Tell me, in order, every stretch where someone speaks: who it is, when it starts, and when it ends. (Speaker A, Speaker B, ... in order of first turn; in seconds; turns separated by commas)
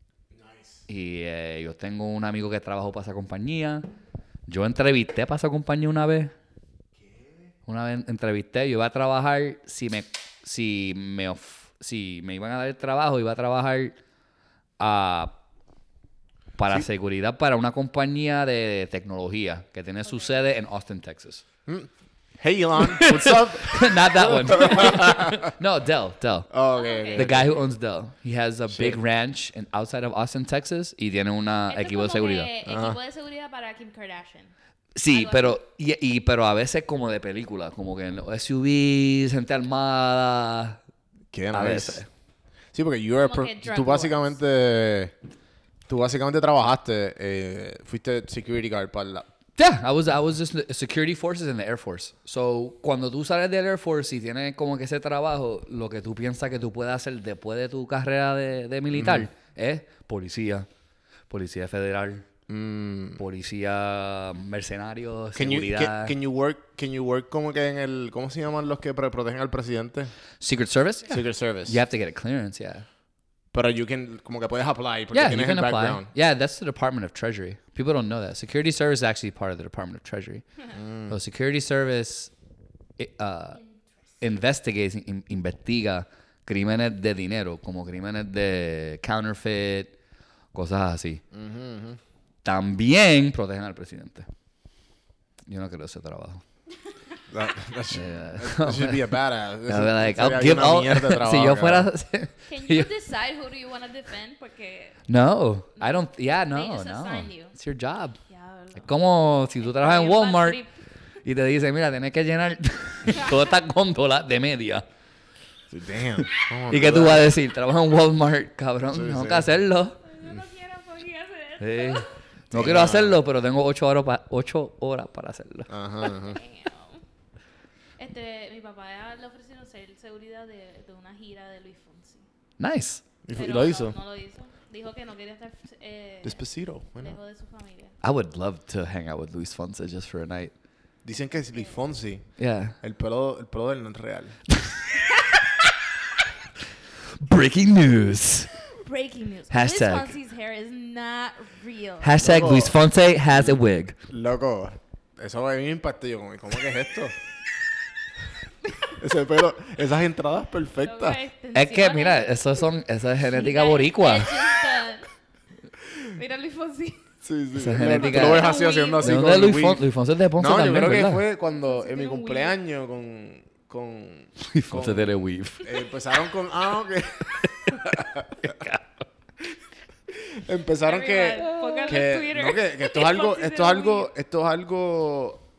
Speaker A: 0.3-0.8, Speaker B: 0.9-3.9, Speaker B: 4.5-6.3, Speaker A: 7.0-7.5, Speaker B: 7.7-13.9, Speaker B: 14.8-15.3, Speaker B: 16.6-21.4, Speaker C: 20.1-20.4, Speaker A: 21.7-25.5, Speaker B: 22.8-26.5, Speaker C: 24.5-24.9, Speaker A: 26.5-27.6, Speaker C: 26.8-27.3, Speaker B: 27.1-32.5, Speaker A: 28.7-29.0, Speaker C: 31.7-34.5, Speaker A: 32.6-33.0, Speaker B: 35.0-40.8, Speaker C: 35.1-35.6, Speaker A: 41.3-42.0, Speaker B: 41.5-42.1, Speaker A: 42.7-45.1, Speaker C: 43.2-44.3, Speaker A: 45.9-49.3, Speaker B: 49.6-60.7, Speaker A: 58.9-59.3, Speaker B: 61.3-62.3, Speaker A: 62.5-63.2, Speaker B: 63.2-66.1, Speaker A: 65.3-70.1, Speaker B: 70.4-72.9, Speaker A: 71.1-71.8, Speaker A: 73.5-76.1, Speaker B: 75.1-80.5, Speaker A: 80.7-81.1, Speaker B: 81.1-82.3, Speaker B: 83.0-83.6, Speaker C: 83.5-83.8, Speaker B: 84.2-89.9, Speaker B: 90.5-91.2, Speaker A: 91.3-92.0, Speaker B: 92.4-94.3, Speaker B: 95.5-96.4, Speaker A: 97.3-101.9, Speaker B: 97.9-99.1, Speaker B: 99.7-102.9, Speaker C: 102.5-105.0, Speaker B: 105.1-108.2, Speaker C: 105.8-107.5, Speaker C: 108.3-108.9, Speaker B: 108.8-110.6, Speaker C: 109.6-110.7, Speaker B: 111.2-114.8, Speaker C: 113.1-113.5, Speaker A: 115.7-117.3, Speaker B: 116.2-120.0, Speaker A: 118.9-119.5, Speaker C: 120.0-122.1, Speaker B: 121.6-125.7, Speaker A: 122.5-123.2, Speaker A: 125.7-126.4, Speaker C: 126.1-127.0, Speaker C: 128.0-132.3, Speaker B: 132.6-133.0, Speaker A: 133.2-134.0, Speaker C: 133.3-136.4, Speaker A: 136.2-137.2, Speaker C: 137.0-138.0, Speaker B: 138.0-140.5, Speaker A: 141.0-142.3, Speaker C: 141.5-141.8, Speaker B: 142.4-142.8, Speaker A: 142.8-144.4, Speaker B: 147.2-148.6, Speaker C: 148.7-152.2, Speaker B: 149.5-150.2, Speaker B: 152.0-154.0, Speaker A: 152.2-152.8, Speaker A: 154.1-157.2, Speaker A: 159.0-161.2, Speaker C: 160.8-162.7, Speaker B: 161.5-164.5, Speaker C: 163.2-165.1, Speaker C: 166.1-167.1, Speaker A: 167.2-169.8, Speaker B: 167.6-171.2, Speaker C: 167.8-169.1, Speaker A: 170.4-178.6, Speaker C: 171.4-172.6, Speaker B: 174.4-175.7, Speaker B: 178.4-179.0, Speaker A: 180.1-185.4, Speaker C: 180.8-184.1, Speaker B: 181.6-181.9